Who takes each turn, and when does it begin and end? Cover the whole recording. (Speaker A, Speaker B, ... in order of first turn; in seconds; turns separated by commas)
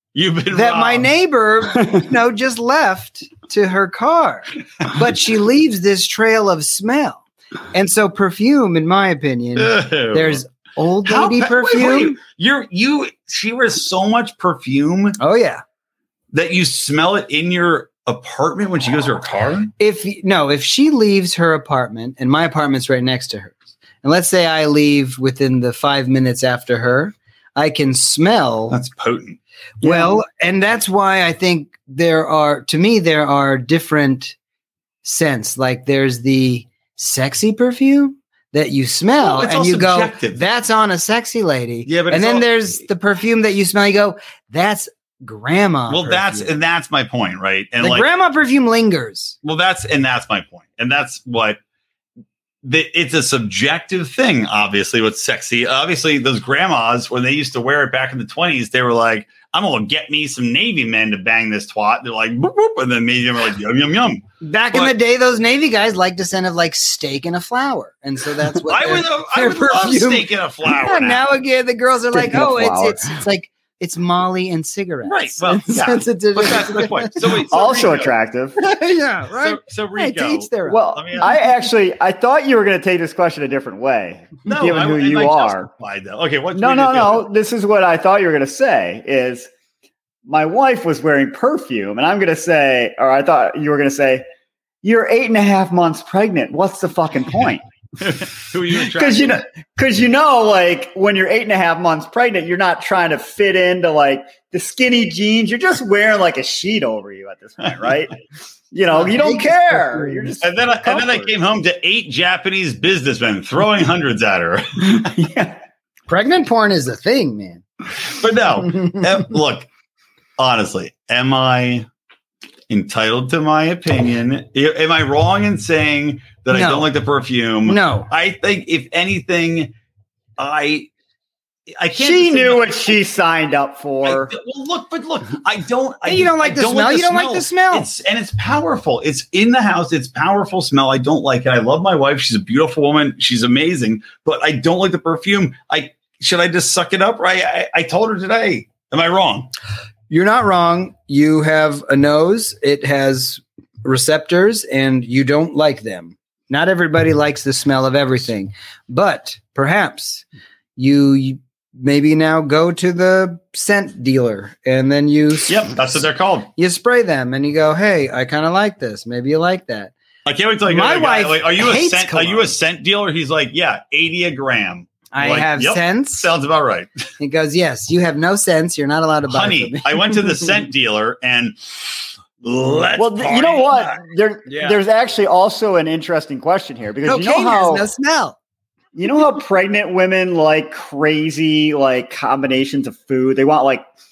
Speaker A: 0.1-1.1, Speaker B: 0.5-12.2, Speaker A: 9.6-10.4, Speaker A: 11.0-15.2, Speaker B: 15.2-15.6, Speaker A: 16.3-19.7, Speaker B: 19.8-28.8, Speaker A: 28.7-29.4, Speaker B: 29.8-34.4, Speaker C: 29.8-30.2, Speaker B: 35.0-46.5, Speaker A: 39.2-40.4, Speaker A: 41.9-42.5, Speaker A: 45.9-48.1, Speaker B: 47.8-49.4, Speaker A: 49.4-51.6, Speaker A: 52.6-64.9, Speaker B: 64.4-77.4, Speaker A: 68.6-71.3, Speaker C: 72.1-73.2, Speaker A: 75.1-78.1, Speaker C: 77.5-78.6, Speaker B: 78.6-80.9, Speaker A: 79.3-81.4, Speaker C: 80.7-85.7, Speaker A: 84.5-87.3, Speaker C: 86.5-89.5, Speaker C: 90.2-94.2, Speaker C: 94.8-97.6, Speaker A: 98.0-99.4, Speaker C: 98.8-108.2, Speaker C: 108.7-111.3, Speaker B: 108.9-110.3, Speaker A: 110.4-115.1, Speaker C: 114.8-115.6, Speaker B: 116.1-117.6, Speaker A: 118.0-119.7, Speaker A: 120.4-121.9, Speaker A: 122.7-129.7, Speaker B: 126.5-126.9, Speaker B: 127.7-128.1, Speaker A: 130.4-130.9, Speaker A: 131.8-132.9, Speaker C: 131.9-134.3, Speaker A: 134.0-149.5, Speaker B: 136.1-137.9, Speaker B: 150.1-160.2, Speaker B: 160.8-165.8, Speaker A: 165.5-166.5, Speaker B: 166.6-169.9, Speaker A: 170.2-176.9, Speaker B: 170.7-172.5, Speaker B: 175.1-176.3, Speaker B: 177.2-180.4, Speaker A: 179.3-184.0, Speaker C: 183.0-187.9, Speaker B: 187.1-188.3, Speaker C: 188.9-193.8